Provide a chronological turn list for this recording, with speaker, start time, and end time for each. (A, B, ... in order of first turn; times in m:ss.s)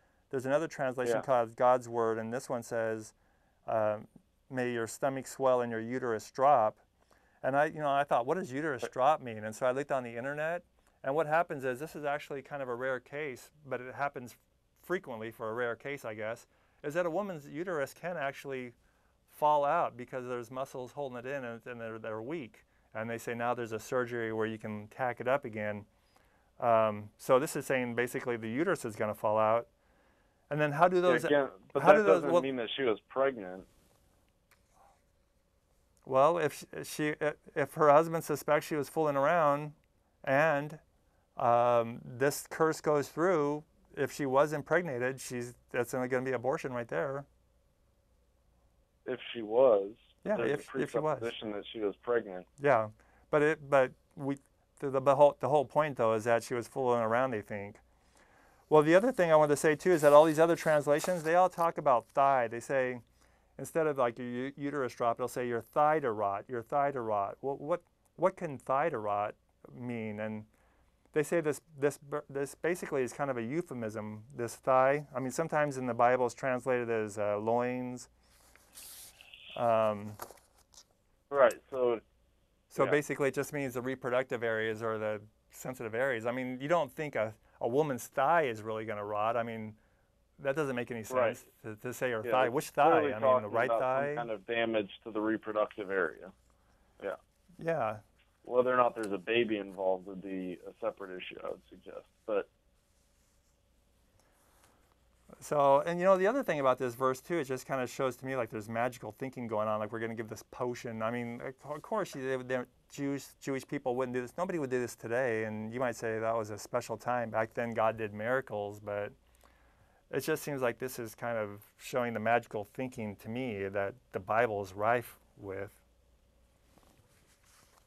0:00.3-0:03.1 A
0:03.6-0:06.8 A
0:07.4-0:18.7 A
0:19.3-0:25.9 A
0:26.6-0:29.7 A
0:30.5-0:32.4 A
0:31.0-0:33.7 B
0:36.0-0:40.8 A
0:41.4-0:47.3 A
0:49.0-0:52.5 B
0:50.2-0:51.3 A
0:52.6-0:57.8 A
0:58.7-1:03.0 A
1:03.6-1:10.5 A
1:11.1-1:18.1 A
1:19.5-1:20.2 A
1:21.3-1:22.0 B
1:22.7-1:29.8 A
1:30.4-1:34.3 A
1:31.1-1:31.4 B
1:32.2-1:36.3 B
1:37.6-1:38.0 A
1:38.4-1:42.5 B
1:45.4-1:59.1 A
2:00.1-2:05.8 A